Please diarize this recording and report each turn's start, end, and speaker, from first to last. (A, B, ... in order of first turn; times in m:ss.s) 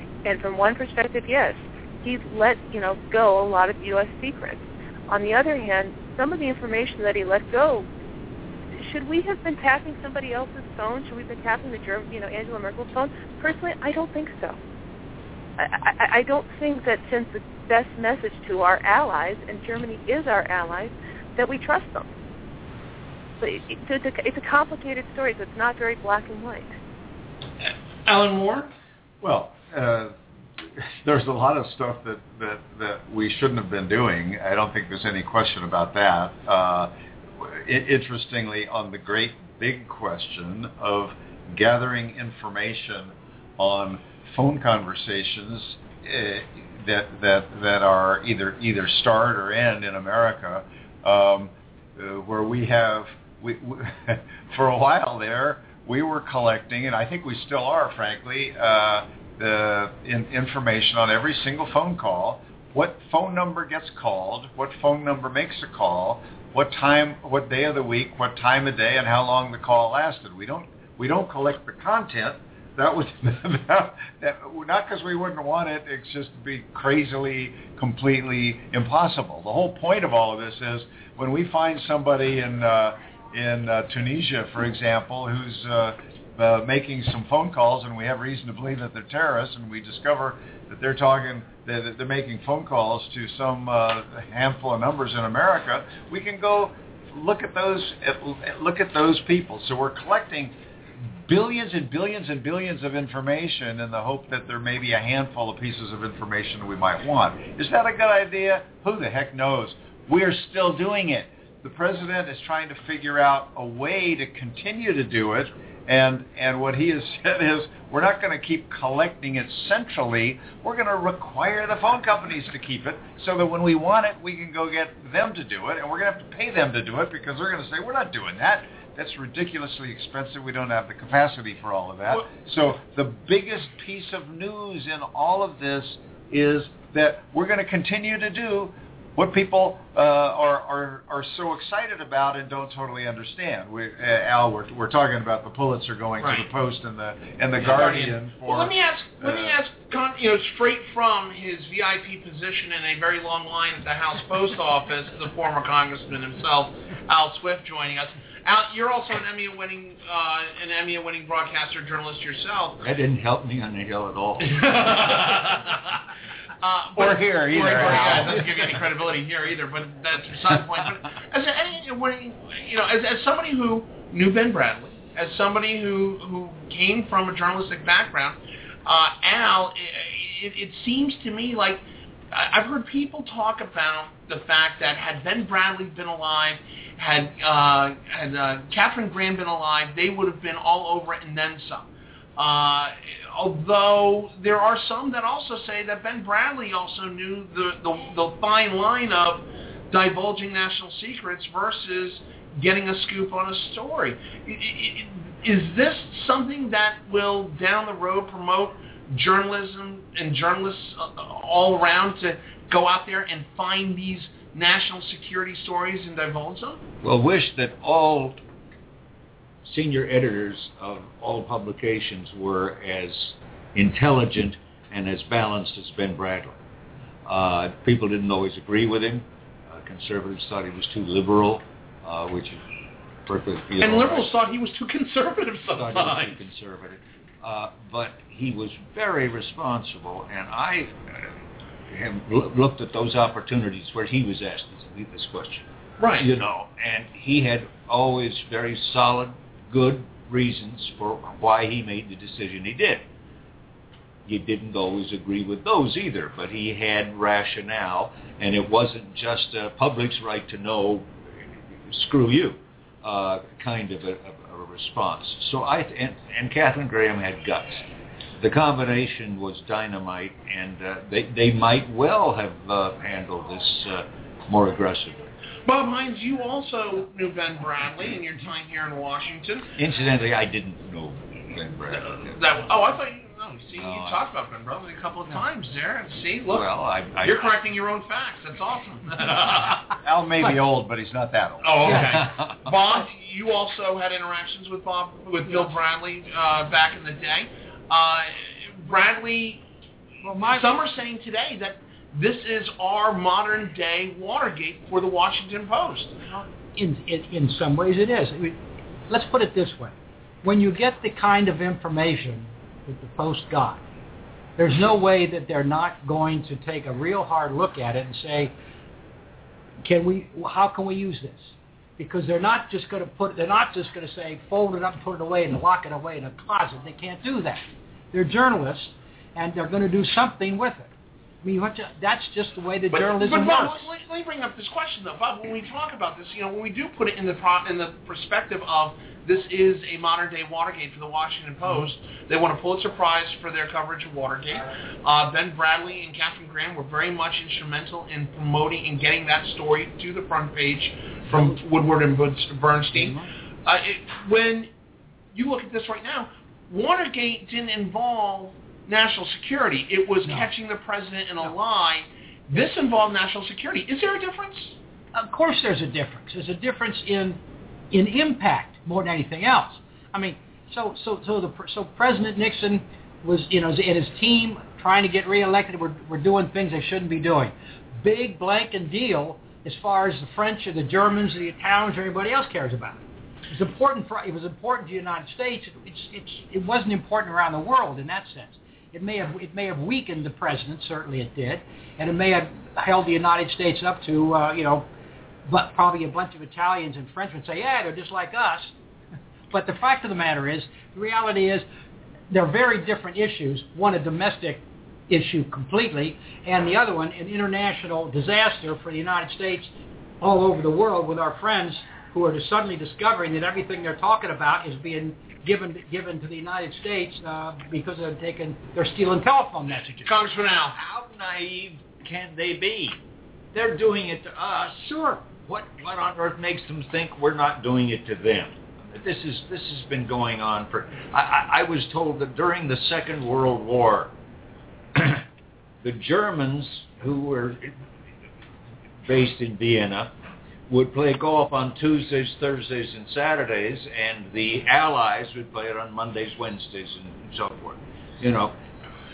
0:00.2-0:07.9 A
0:08.7-0:14.6 A
0:15.6-0:22.1 A
0:23.4-0:26.8 A
0:27.6-0:28.7 B
0:29.2-1:40.5 C
1:41.2-2:29.6 C
2:27.6-2:42.8 B
2:42.8-2:45.5 D
2:44.6-2:45.6 B
2:46.6-3:36.8 B
2:47.0-2:48.8 C
3:37.0-3:38.4 D
3:39.6-3:46.6 D
3:47.2-3:52.6 D
3:53.2-3:54.3 D
3:53.8-3:56.4 B
3:55.8-4:01.3 D
4:01.9-4:13.0 D
4:06.0-4:06.3 B
4:14.2-4:21.1 D
4:21.8-4:27.8 D
4:28.4-4:35.3 D
4:35.6-4:39.7 B
4:39.8-4:42.4 D
4:41.9-4:46.6 B
4:43.8-4:44.2 D
4:46.5-4:47.5 D
4:47.2-4:49.8 B
4:50.0-4:51.9 C
4:51.6-4:59.6 B
4:51.8-4:52.2 E
4:52.1-4:52.7 D
5:00.2-5:00.7 E
5:00.4-5:06.2 B
5:06.3-5:08.6 E
5:09.1-5:13.8 E
5:14.6-5:18.5 E
5:19.8-5:30.9 E
5:31.4-5:33.9 E
5:32.9-5:54.7 B
5:51.3-5:51.5 E
5:52.9-5:53.3 E
5:55.3-6:04.8 B
6:05.1-6:07.4 E
6:07.9-6:34.8 E
6:35.5-6:38.7 E
6:39.5-6:41.6 E
6:42.3-7:00.1 E
7:00.0-7:00.8 B
7:00.7-7:03.0 D
7:03.5-7:14.1 D
7:04.8-7:05.2 E
7:14.9-7:15.2 D
7:15.8-7:17.7 D
7:19.0-7:20.1 D
7:20.7-7:28.5 D